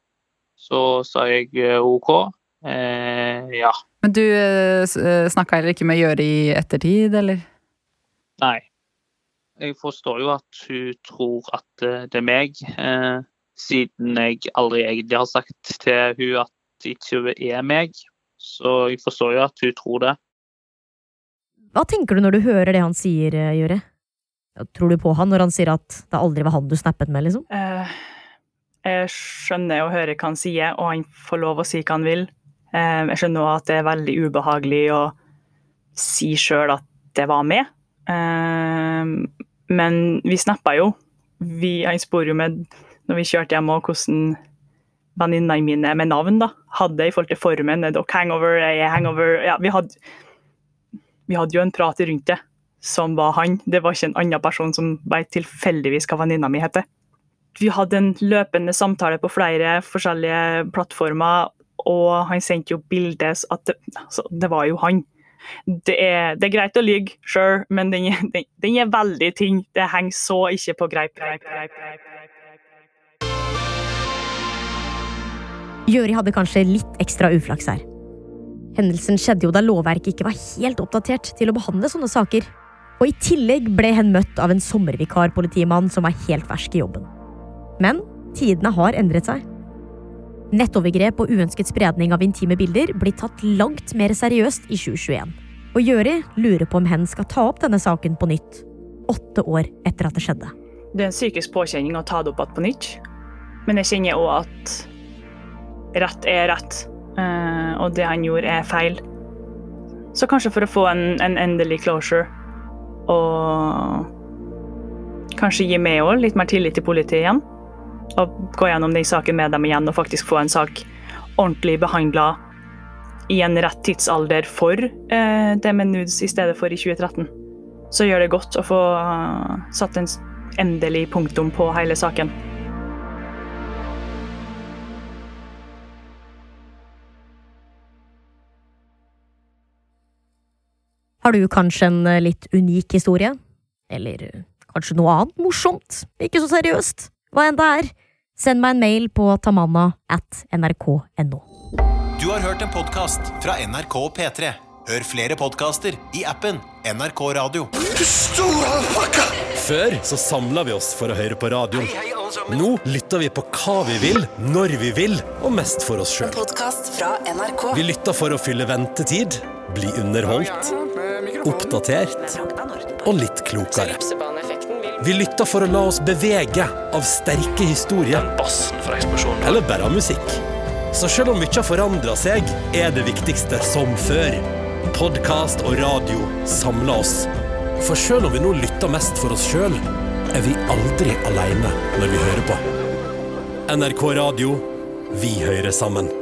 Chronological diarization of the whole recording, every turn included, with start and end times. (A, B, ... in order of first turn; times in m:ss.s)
0:00.6-0:03.8 A
0:04.0-0:07.4 B
0:08.4-0:08.6 A
0:09.6-0:20.2 A
0:21.7-0:23.8 C
0:24.6-0:27.5 C
0:27.5-0:28.0 D
0:28.8-0:35.1 D
0:36.0-0:44.4 D
0:45.2-0:49.9 D
0:51.3-0:56.8 D
0:57.6-1:05.1 D
1:05.7-1:12.1 D
1:15.8-1:17.8 C
1:18.7-1:27.1 C
1:27.8-1:29.4 C
1:30.5-1:40.5 C
1:40.9-1:43.0 D
1:43.6-1:44.9 D
1:45.9-1:49.0 D
1:50.1-1:52.3 D
1:53.1-1:54.1 D
1:55.3-1:57.4 D
1:58.1-2:02.4 D
2:03.3-2:07.3 D
2:07.9-2:12.3 D
2:21.2-2:23.4 C
2:23.9-2:31.4 C
2:32.2-2:37.7 E
2:38.0-2:46.4 F
2:46.2-2:47.8 G
2:47.7-2:50.7 F
2:51.4-2:52.3 F
2:52.3-2:53.0 G
2:53.0-2:54.0 F
2:55.0-3:00.4 F
3:00.9-3:07.3 F
3:07.8-3:09.8 F
3:10.3-3:12.6 F
3:13.7-3:16.1 F